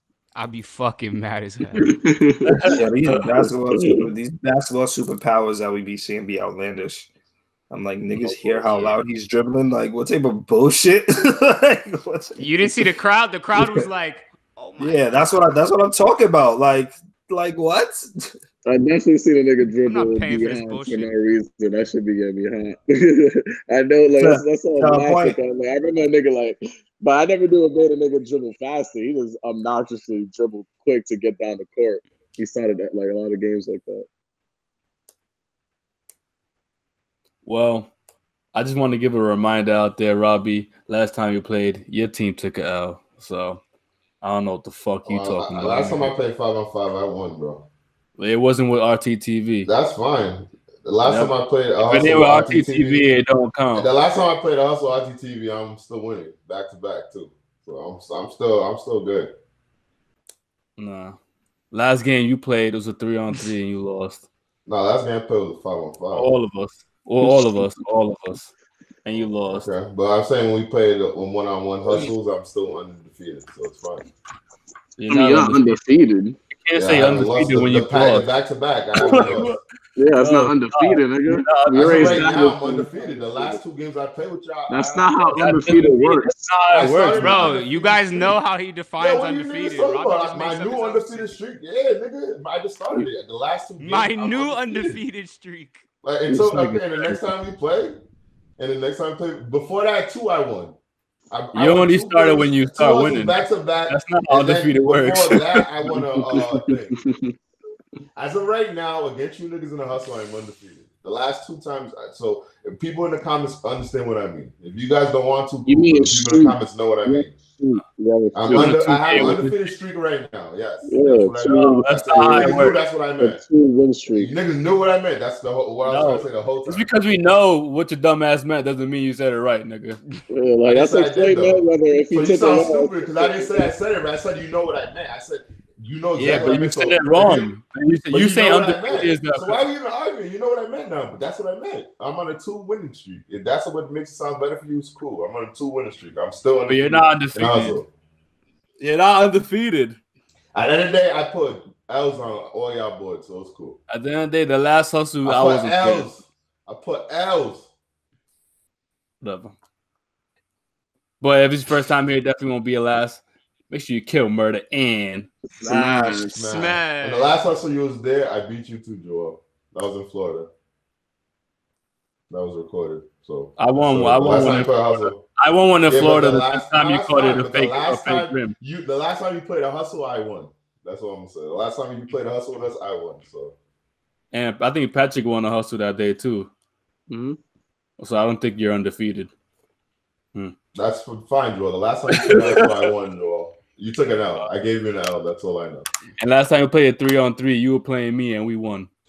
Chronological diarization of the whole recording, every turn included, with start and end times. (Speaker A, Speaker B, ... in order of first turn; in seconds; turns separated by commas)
Speaker A: 0.3-1.9, Speaker B: 1.8-2.7, Speaker C: 2.5-2.8, Speaker D: 2.7-7.1, Speaker B: 3.7-4.0, Speaker D: 7.7-12.9, Speaker A: 12.4-15.2, Speaker D: 13.5-13.8, Speaker D: 14.8-18.3, Speaker B: 18.6-34.0, Speaker A: 19.9-21.1, Speaker D: 24.2-25.4, Speaker C: 37.4-37.9, Speaker C: 38.5-43.6, Speaker C: 44.2-46.1, Speaker E: 45.0-47.6, Speaker C: 48.2-49.7, Speaker E: 49.6-53.0, Speaker C: 51.0-53.9, Speaker E: 53.7-59.3, Speaker C: 60.8-61.2, Speaker C: 61.7-64.2, Speaker E: 64.7-66.3, Speaker C: 66.1-68.5, Speaker C: 69.0-69.7, Speaker E: 69.5-74.1, Speaker C: 75.0-75.8, Speaker B: 75.1-76.4, Speaker C: 76.5-78.3, Speaker E: 76.8-79.5, Speaker C: 79.0-79.6, Speaker B: 80.0-83.6, Speaker C: 80.2-82.4, Speaker E: 81.7-85.8, Speaker B: 84.7-86.4, Speaker C: 85.4-87.5, Speaker E: 86.7-88.4, Speaker A: 87.1-91.3, Speaker E: 89.0-95.0, Speaker A: 93.8-95.8, Speaker E: 96.0-98.0, Speaker B: 96.3-96.8, Speaker E: 98.6-100.8, Speaker E: 101.3-106.9, Speaker C: 101.5-105.6, Speaker B: 107.0-107.3, Speaker E: 108.1-117.3, Speaker B: 115.7-119.4, Speaker E: 118.3-123.4, Speaker C: 118.5-119.6, Speaker B: 120.9-121.8, Speaker C: 121.5-122.8, Speaker B: 123.2-124.3, Speaker E: 124.1-126.9, Speaker C: 125.8-130.0, Speaker B: 130.3-133.7, Speaker E: 130.7-137.5, Speaker C: 136.2-139.6, Speaker E: 138.1-147.9, Speaker C: 146.7-147.8, Speaker C: 148.8-150.0, Speaker E: 150.5-153.8, Speaker C: 153.9-156.1, Speaker E: 155.2-157.7, Speaker C: 159.2-159.5, Speaker C: 161.2-165.3, Speaker B: 165.6-166.5, Speaker D: 165.6-166.2, Speaker E: 166.3-170.5, Speaker A: 166.4-167.3, Speaker E: 172.3-175.2, Speaker C: 173.6-178.5, Speaker E: 175.9-183.5, Speaker C: 184.3-186.5, Speaker B: 187.1-187.4, Speaker C: 188.0-189.3, Speaker E: 190.7-195.9, Speaker C: 192.2-192.6, Speaker C: 196.2-198.9